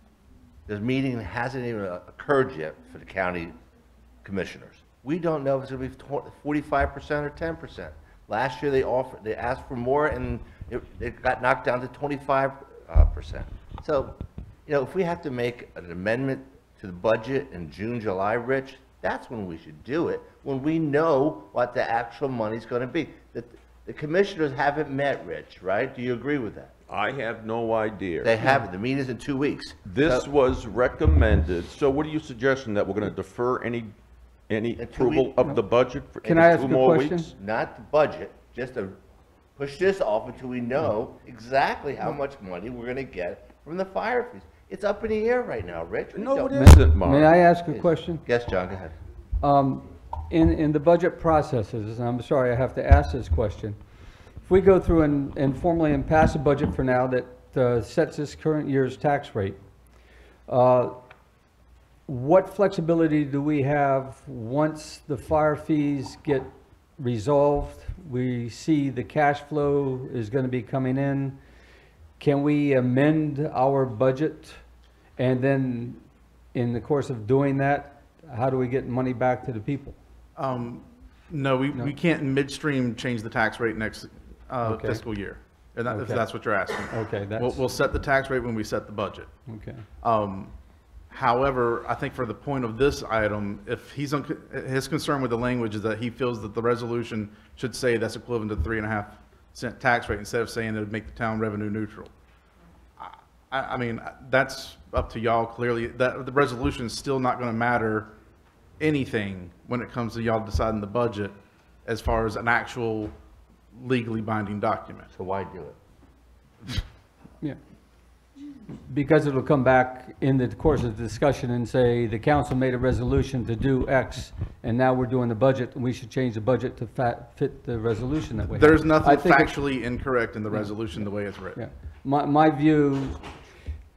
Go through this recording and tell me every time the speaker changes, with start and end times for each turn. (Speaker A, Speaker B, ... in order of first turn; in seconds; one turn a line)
Speaker A: 0.7-3.6
Speaker A: 4.2-26.7
Speaker B: 26.9-28.3
Speaker A: 28.2-29.8
Speaker B: 29.8-33.9
Speaker B: 34.5-37.3
Speaker A: 34.8-35.4
Speaker C: 36.2-37.3
Speaker A: 37.3-39.0
Speaker A: 39.6-46.6
Speaker B: 46.1-47.4
Speaker C: 46.5-48.2
Speaker A: 47.7-48.9
Speaker C: 49.4-53.8
Speaker C: 54.4-59.6
Speaker C: 60.5-60.9
Speaker C: 62.1-71.4
Speaker C: 72.2-74.5
Speaker C: 75.2-80.0
Speaker D: 80.4-89.3
Speaker C: 84.6-85.0
Speaker C: 85.9-86.3
Speaker C: 86.9-87.6
Speaker C: 89.5-89.8
Speaker D: 90.0-90.5
Speaker D: 91.1-102.1
Speaker D: 103.0-108.1
Speaker D: 108.8-113.1
Speaker D: 113.7-115.1
Speaker A: 115.1-115.8
Speaker C: 118.8-129.6
Speaker D: 128.5-131.6
Speaker C: 130.5-133.2